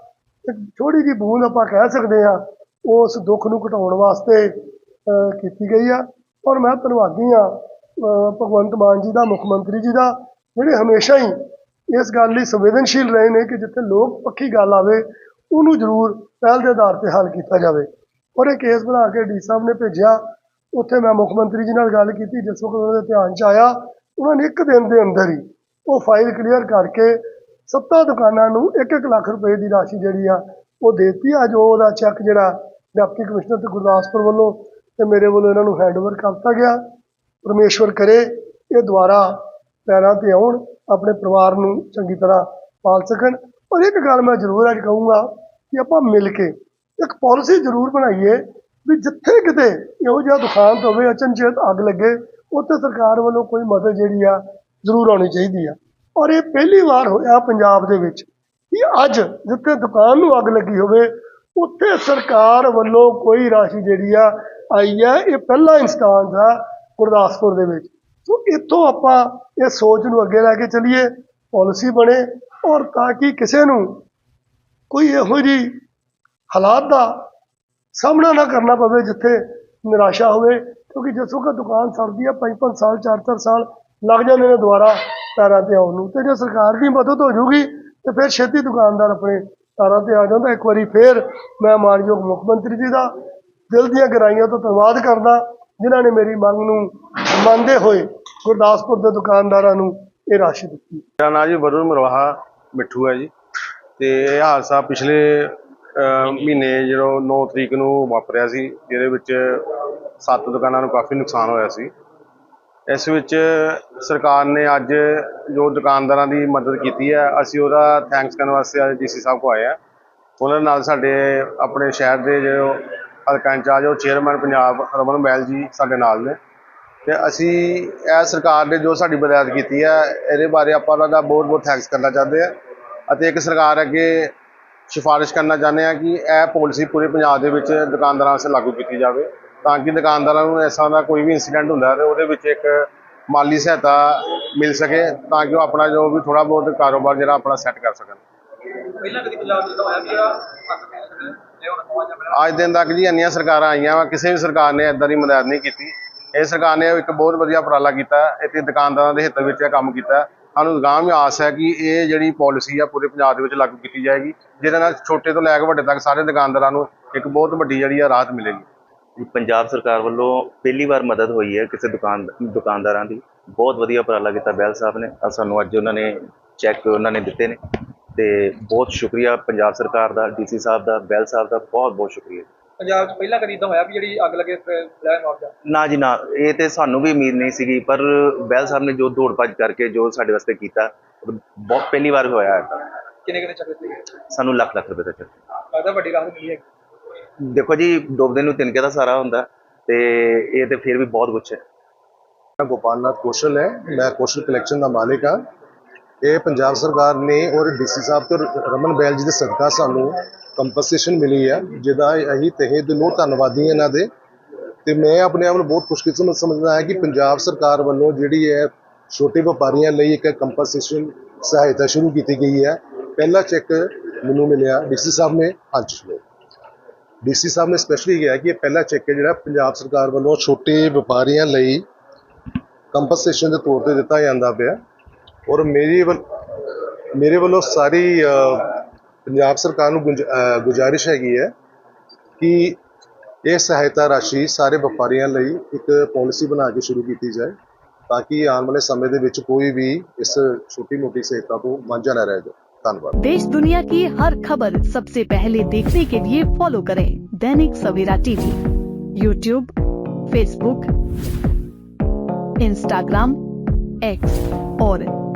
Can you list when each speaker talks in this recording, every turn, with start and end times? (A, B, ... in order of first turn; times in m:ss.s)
0:00.4-0:04.5 A
0:05.1-0:11.3 A
0:11.9-0:20.2 A
0:20.7-0:27.2 A
0:27.7-0:36.8 A
0:37.4-1:14.0 A
1:14.9-1:15.7 A
1:16.5-1:17.2 A
1:17.9-1:33.1 A
1:33.7-1:41.0 A
1:41.2-1:43.3 B
1:44.0-1:51.9 B
1:52.9-1:59.8 B
2:00.4-2:06.4 B
2:07.0-2:12.5 B
2:13.1-2:14.3 B
2:14.9-2:28.2 B
2:29.0-2:32.2 C
2:32.3-2:48.6 B
2:49.4-2:56.1 D
2:56.7-2:57.6 D
2:58.2-3:02.4 D
3:02.8-3:05.5 C
3:05.8-3:07.8 D
3:08.7-3:09.1 D
3:13.2-3:14.0 C
3:15.7-3:16.6 C
3:22.6-3:25.4 E
3:26.2-3:34.1 E
3:34.8-3:46.2 E
3:47.2-3:51.8 E
3:52.9-3:54.8 E
3:55.5-3:56.2 E
3:57.1-4:01.5 E
4:02.4-4:02.8 E
4:03.4-4:07.5 E
4:08.1-4:13.1 E
4:13.2-4:18.6 F
4:19.1-4:19.7 F
4:20.3-4:20.9 F
4:22.6-4:23.4 F
4:24.0-4:25.1 F